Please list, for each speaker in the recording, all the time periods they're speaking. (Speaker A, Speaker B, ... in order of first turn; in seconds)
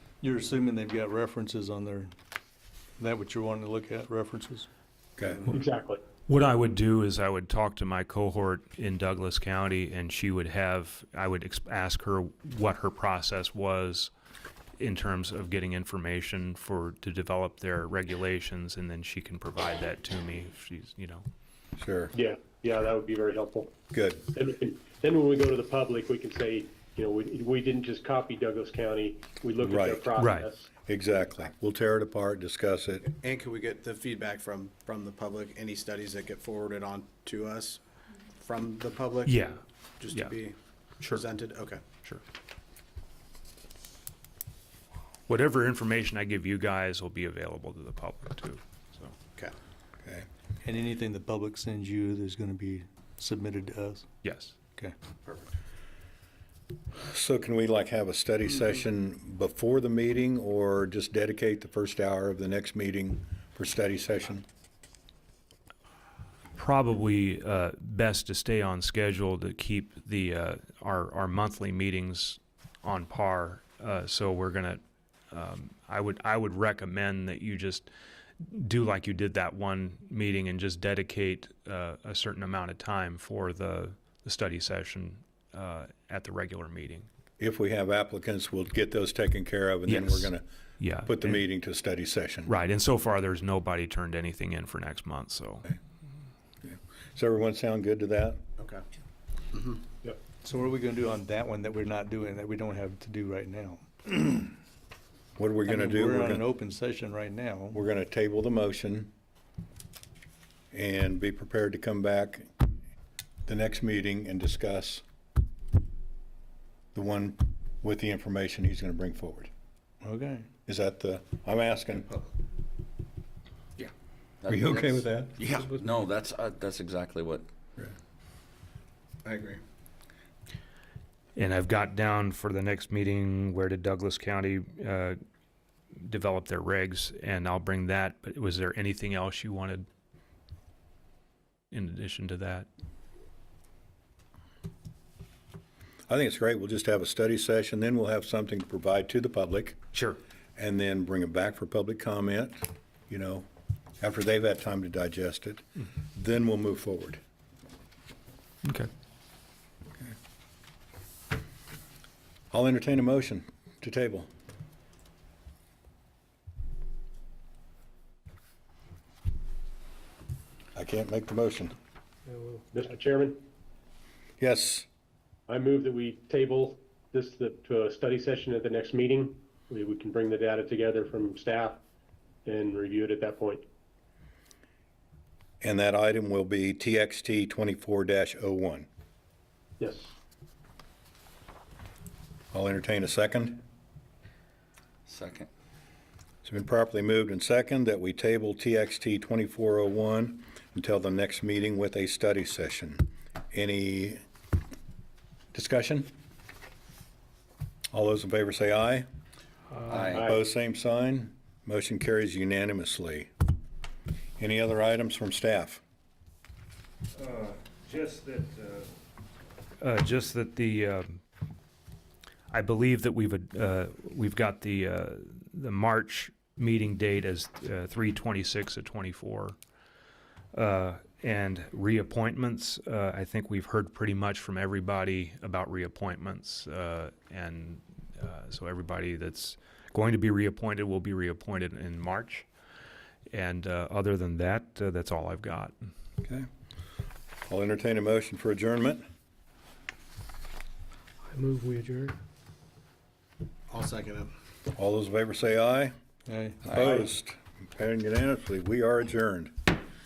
Speaker A: 0.2-2.1, 3.0-4.7, 50.6-54.1, 100.4-104.5, 105.7-107.8, 120.0-120.5, 251.5-252.1, 256.3-256.9
Speaker B: 5.2-5.5, 21.8-22.1, 23.9-24.2, 29.6-30.1, 30.9-33.1, 57.0-64.5, 87.4-90.5, 91.1-92.5, 96.6-98.4, 105.4-106.4, 107.7-109.1, 110.7-112.7, 113.5-115.0, 116.9-119.5, 120.7-122.1, 124.5-125.4, 146.1-149.8, 150.6-153.5, 154.0-157.2, 162.5-164.3, 170.8-171.8, 174.4-174.9, 185.6-188.9, 192.5-193.6, 196.4-204.2, 205.5-206.1, 207.9-209.1, 210.2-213.3, 214.4-215.8, 247.5-249.0, 254.7-255.9, 256.6-259.7
Speaker C: 5.5-6.0, 22.1-23.7, 24.3-30.7, 172.7-173.4, 175.5-181.8, 182.5-183.7, 189.8-190.2, 210.1-210.4
Speaker D: 6.3-14.1, 14.8-21.3, 30.2-30.5, 39.2-40.4, 45.3-49.1, 54.2-54.5, 66.5-77.9, 78.4-87.1, 89.9-91.4, 92.5-95.7, 131.4-135.2, 135.9-139.9, 141.7-142.7, 149.9-150.2, 158.6-158.9, 217.1-218.9, 219.8-221.2, 222.5-229.6, 230.5-242.5, 243.3-245.8
Speaker E: 33.1-39.4, 40.0-41.8, 55.3-55.5, 99.5-99.8, 122.0-122.3, 129.2-129.6, 253.7-254.3
Speaker F: 123.8-127.5, 195.1-195.5, 209.9-210.3